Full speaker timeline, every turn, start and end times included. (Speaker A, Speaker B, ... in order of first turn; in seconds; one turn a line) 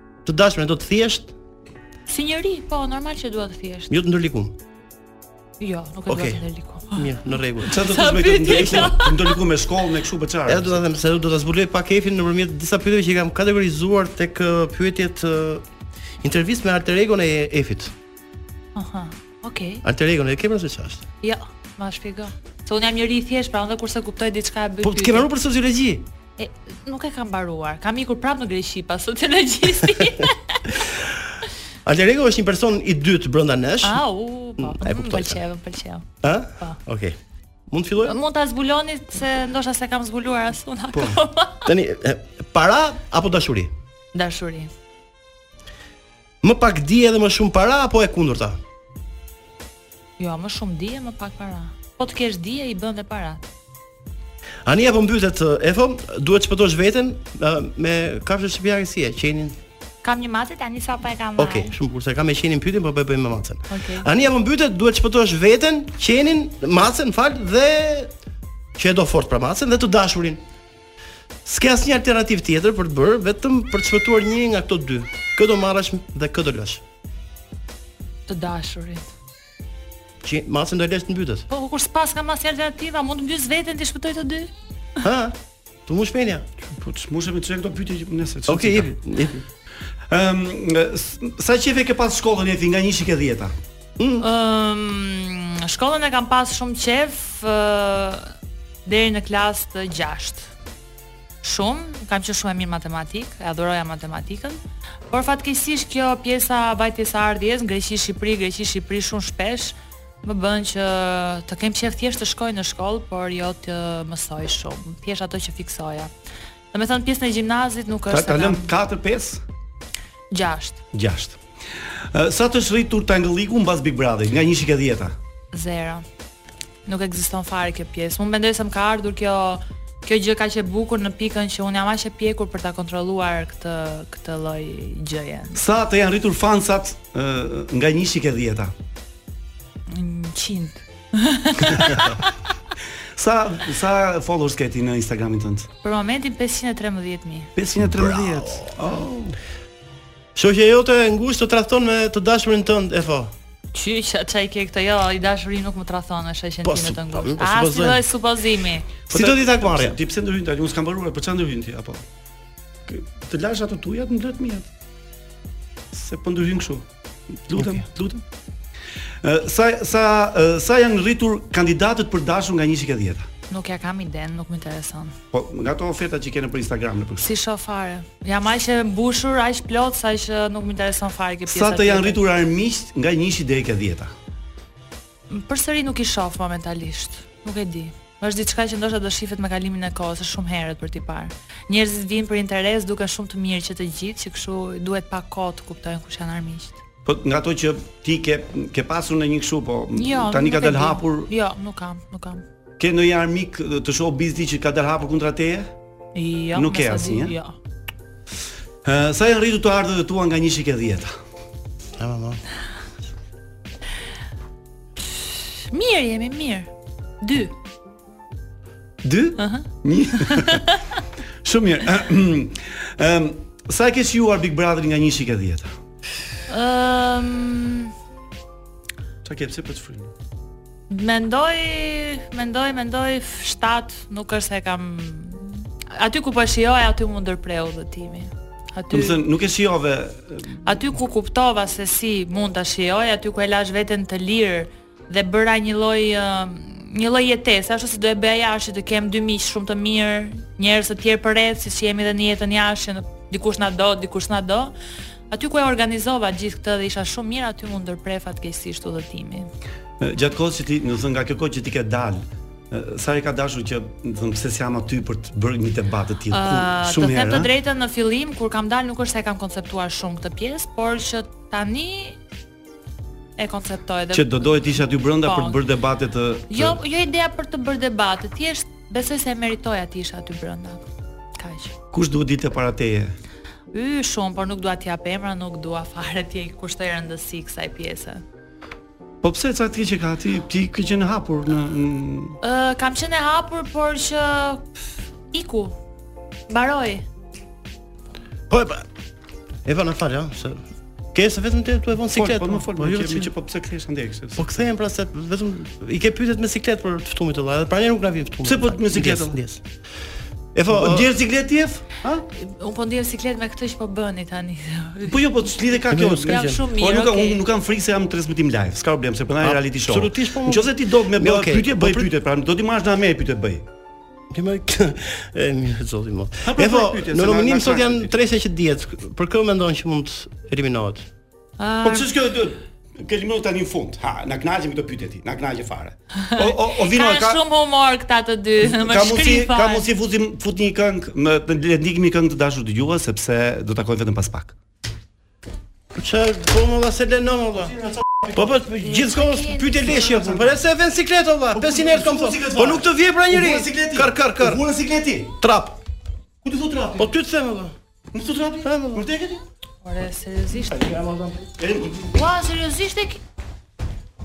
Speaker A: 0.2-1.3
Speaker B: 2.1-3.9
Speaker A: 3.9-4.5
Speaker B: 5.6-7.1
Speaker A: 6.1-7.8
Speaker B: 7.6-9.4
Speaker C: 7.6-10.8
Speaker A: 8.5-8.9
Speaker A: 10.5-15.6
Speaker A: 16.2-17.9
Speaker B: 18.7-19.8
Speaker A: 19.8-21.1
Speaker B: 21.2-25.3
Speaker A: 24.8-26.1
Speaker B: 26.4-30.6
Speaker A: 30.7-31.2
Speaker A: 31.8-34.0
Speaker B: 33.8-36.0
Speaker A: 34.6-35.4
Speaker A: 36.2-37.2
Speaker A: 37.7-38.2
Speaker B: 38.0-41.7
Speaker C: 40.9-41.2
Speaker A: 41.6-43.7
Speaker B: 44.1-44.7
Speaker A: 46.4-48.6
Speaker B: 50.2-53.5
Speaker A: 54.6-59.6
Speaker B: 60.0-61.7
Speaker A: 61.4-68.1
Speaker B: 63.7-64.1
Speaker A: 68.8-70.4
Speaker A: 71.5-76.8
Speaker B: 78.3-79.0
Speaker A: 80.2-81.5
Speaker B: 81.5-84.5
Speaker A: 85.0-85.3
Speaker A: 85.9-86.5
Speaker C: 86.6-88.9
Speaker A: 88.5-89.4
Speaker C: 90.1-93.5
Speaker A: 94.0-94.3
Speaker B: 94.2-98.3
Speaker B: 98.8-100.5
Speaker B: 101.4-104.6
Speaker B: 105.1-116.1
Speaker B: 116.7-118.7
Speaker C: 118.1-119.4
Speaker B: 120.3-120.8
Speaker C: 120.9-121.4
Speaker C: 122.1-125.2
Speaker B: 125.5-126.0
Speaker B: 126.9-135.6
Speaker C: 135.6-138.7
Speaker B: 139.9-142.3
Speaker C: 143.2-145.7
Speaker B: 145.8-147.5
Speaker C: 147.6-149.4
Speaker A: 147.9-148.7
Speaker A: 150.4-153.3
Speaker B: 153.7-158.9
Speaker A: 156.6-158.0
Speaker A: 159.1-160.0
Speaker C: 159.1-162.1
Speaker C: 162.9-164.7
Speaker C: 165.9-166.9
Speaker C: 167.5-168.2
Speaker A: 167.6-167.8
Speaker C: 169.2-173.3
Speaker B: 173.5-175.2
Speaker C: 175.3-177.3
Speaker B: 177.2-182.2
Speaker C: 181.5-184.1
Speaker B: 185.3-196.8
Speaker C: 197.1-201.3
Speaker B: 199.9-202.4
Speaker C: 202.8-205.7
Speaker B: 206.1-207.6
Speaker C: 206.5-207.4
Speaker C: 208.8-211.2
Speaker A: 212.0-212.4
Speaker B: 215.0-216.7
Speaker B: 217.2-217.5
Speaker C: 219.0-220.6
Speaker B: 219.4-221.0
Speaker C: 221.4-225.7
Speaker B: 226.5-227.9
Speaker C: 229.2-230.1
Speaker B: 230.9-239.2
Speaker C: 238.9-240.6
Speaker B: 240.6-254.7
Speaker B: 255.3-259.5
Speaker C: 260.0-267.5
Speaker B: 266.3-272.2
Speaker B: 273.4-275.6
Speaker C: 274.1-276.8
Speaker B: 276.5-280.8
Speaker B: 281.4-281.7
Speaker C: 281.9-283.1
Speaker B: 283.7-288.2
Speaker C: 289.2-292.4
Speaker B: 292.4-294.6
Speaker B: 295.3-295.8
Speaker B: 296.5-297.0
Speaker A: 298.5-298.8
Speaker A: 299.6-300.6
Speaker A: 301.1-303.3
Speaker C: 302.1-304.5
Speaker A: 304.4-309.6
Speaker C: 308.4-309.4
Speaker A: 310.6-311.1
Speaker C: 310.7-312.2
Speaker B: 312.4-315.3
Speaker C: 315.0-323.7
Speaker A: 315.9-316.6
Speaker B: 316.3-317.4
Speaker A: 319.4-322.1
Speaker A: 324.3-331.1
Speaker C: 326.4-328.1
Speaker B: 331.6-332.1
Speaker C: 331.8-337.4
Speaker B: 336.3-339.9
Speaker C: 338.6-344.6
Speaker A: 345.9-347.8
Speaker C: 347.7-348.6
Speaker A: 348.3-354.6
Speaker B: 348.8-350.3
Speaker C: 349.9-350.5
Speaker C: 351.6-355.3
Speaker A: 355.4-355.8
Speaker C: 356.4-357.1
Speaker A: 356.9-357.7
Speaker C: 358.1-359.4
Speaker A: 358.6-359.1
Speaker B: 359.8-360.9
Speaker A: 360.7-361.4
Speaker C: 361.6-362.2
Speaker B: 362.1-363.2